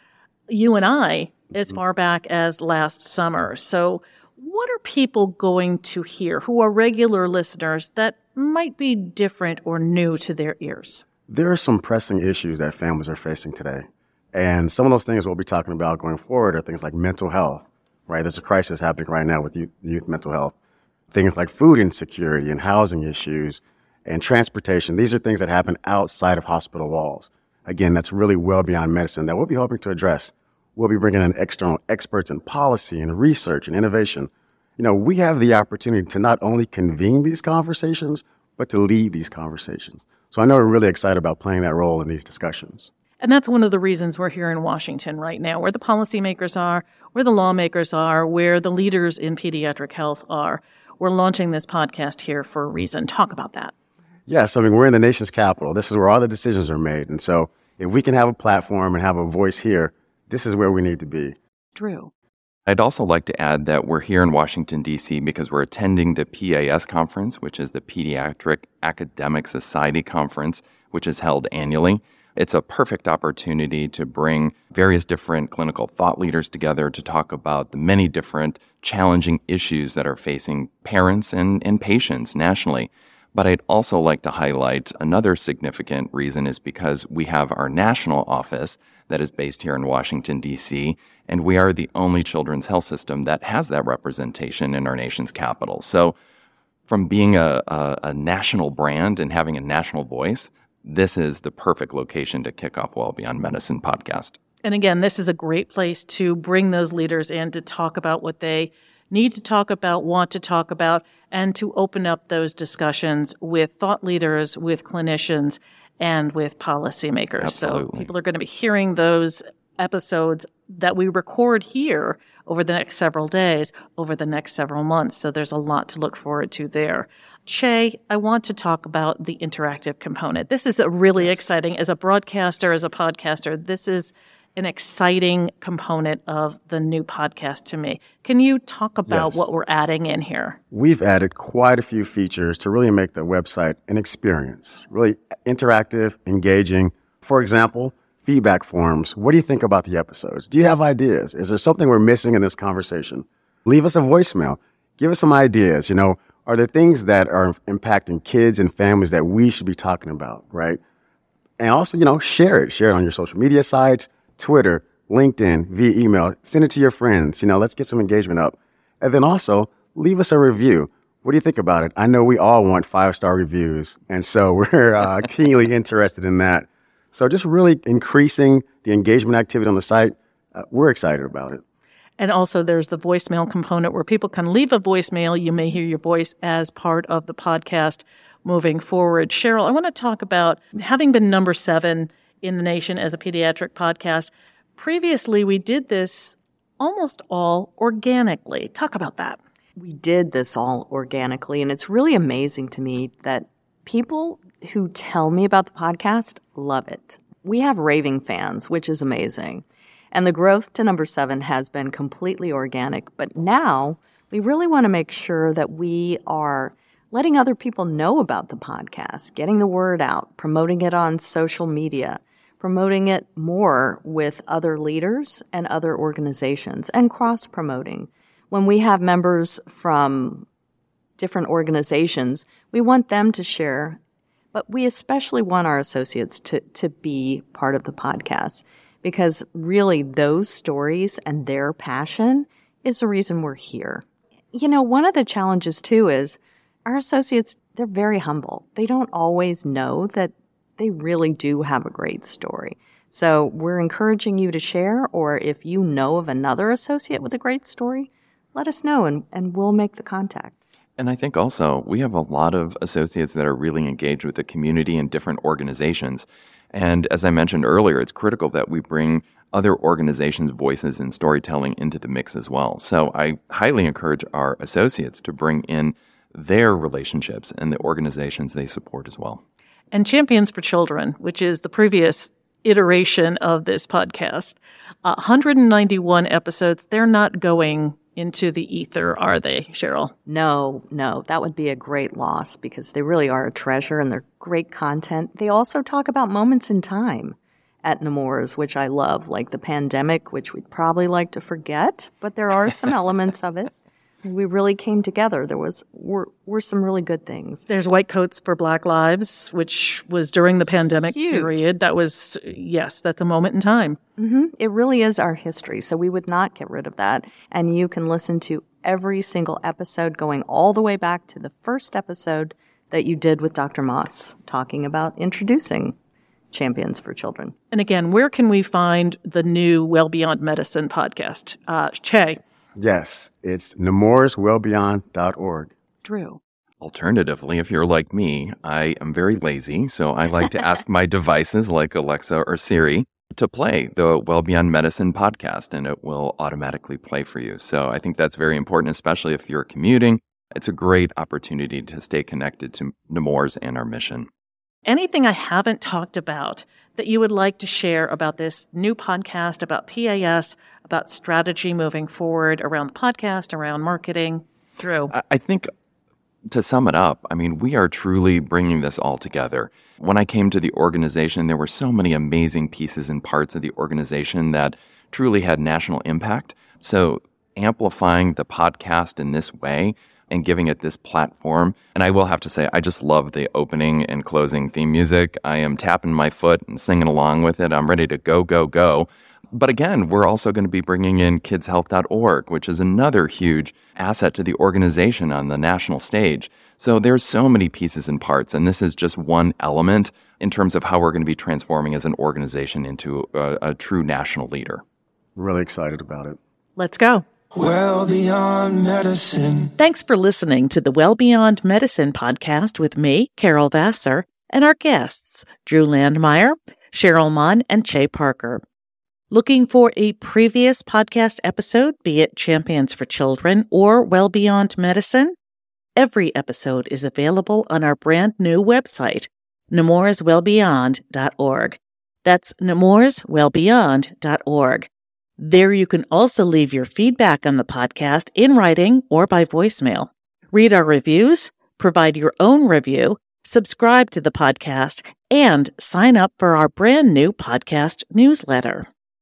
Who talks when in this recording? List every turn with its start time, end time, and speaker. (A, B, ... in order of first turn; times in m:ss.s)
0:00.5-0:11.0 A
0:11.3-0:20.5 B
0:21.1-0:42.9 B
0:43.2-0:53.7 A
0:54.3-1:01.4 B
1:01.7-1:02.1 A
1:02.7-1:36.1 C
1:36.9-1:44.4 C
1:44.6-2:20.6 A
1:57.4-1:58.1 C
2:11.2-2:11.6 B
2:19.1-2:19.5 B
2:20.7-2:40.8 B
2:41.6-3:01.6 B
3:02.2-3:19.4 A
3:19.8-3:50.4 D
3:51.2-3:54.0 D
3:54.5-4:20.5 D
4:21.0-4:39.4 C
4:39.9-4:50.1 A
4:50.2-5:03.7 D
5:04.2-5:07.6 D
5:07.7-5:14.0 A
5:11.0-5:11.7 D
5:14.2-5:25.9 D
5:26.5-5:27.5 D
5:27.7-5:32.4 A
5:32.8-5:35.7 B
5:36.0-5:36.4 A
5:36.8-5:54.3 C
5:54.8-6:05.1 A
6:05.1-6:05.7 C
6:06.5-6:44.8 C
6:45.4-6:46.4 B
6:46.8-6:47.2 A
6:47.5-6:49.7 E
6:49.8-6:58.6 A
6:59.3-7:05.4 A
7:06.0-7:28.9 A